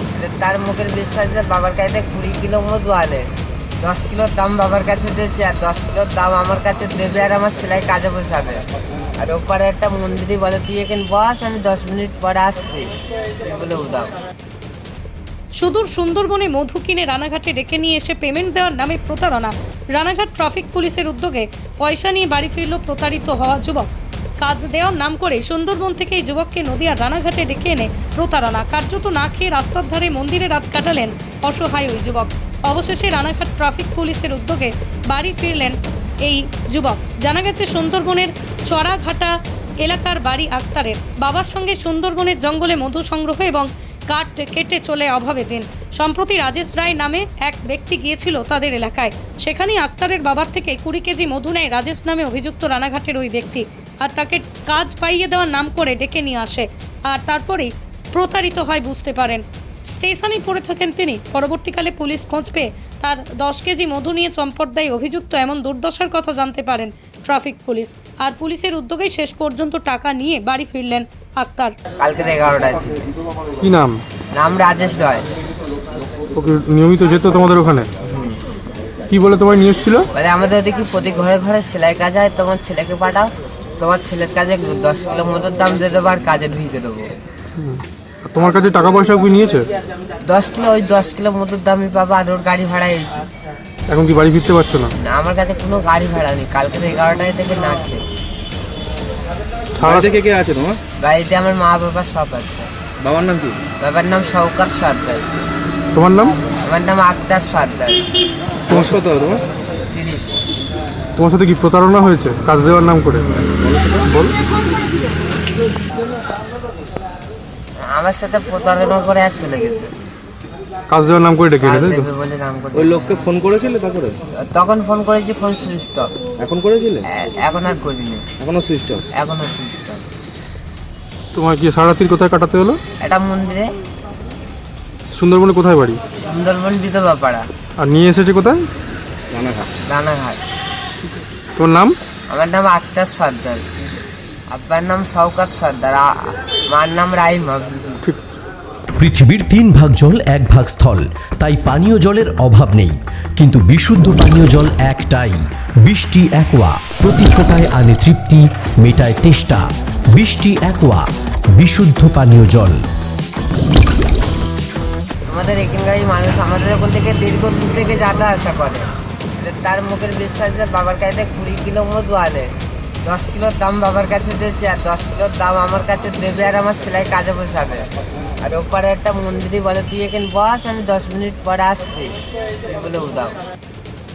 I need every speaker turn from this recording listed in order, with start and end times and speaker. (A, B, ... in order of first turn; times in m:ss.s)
0:00.2-0:03.2 A
0:03.8-0:08.6 A
0:09.2-0:12.9 A
0:13.4-0:14.1 A
0:15.6-1:11.7 B
1:12.0-1:13.0 A
1:13.6-1:14.0 C
1:14.3-1:15.2 A
1:16.4-1:17.9 C
1:18.0-1:18.4 A
1:19.1-1:20.0 C
1:20.1-1:27.1 A
1:27.6-1:29.6 C
1:30.2-1:33.2 A
1:33.9-1:34.9 C
1:35.1-1:38.0 A
1:39.8-1:40.1 C
1:39.8-1:40.8 D
1:41.0-1:42.7 A
1:43.0-1:43.6 D
1:43.8-1:45.2 A
1:45.9-1:46.4 C
1:46.6-1:48.0 A
1:48.7-1:49.4 D
1:49.9-1:50.3 A
1:51.2-1:53.4 C
1:53.6-1:54.1 D
1:54.1-1:54.4 C
1:57.9-1:59.9 A
2:00.9-2:02.0 C
2:01.6-2:03.2 A
2:02.8-2:04.1 D
2:04.5-2:06.1 A
2:06.4-2:07.0 D
2:07.1-2:08.2 A
2:08.4-2:09.0 D
2:09.2-2:10.0 A
2:11.3-2:12.8 C
2:13.0-2:13.6 A
2:15.1-2:16.0 C
2:16.2-2:17.4 A
2:17.8-2:18.7 C
2:19.3-2:19.7 D
2:19.9-2:20.4 A
2:21.6-2:21.9 C
2:22.3-2:23.6 A
2:24.5-2:26.0 A
2:26.7-2:28.0 A
2:29.0-2:39.6 E
2:40.1-2:42.8 E
2:45.3-2:48.8 A
2:49.4-2:52.5 A
2:53.0-2:57.8 A
2:58.4-3:02.1 A
3:02.6-3:03.3 A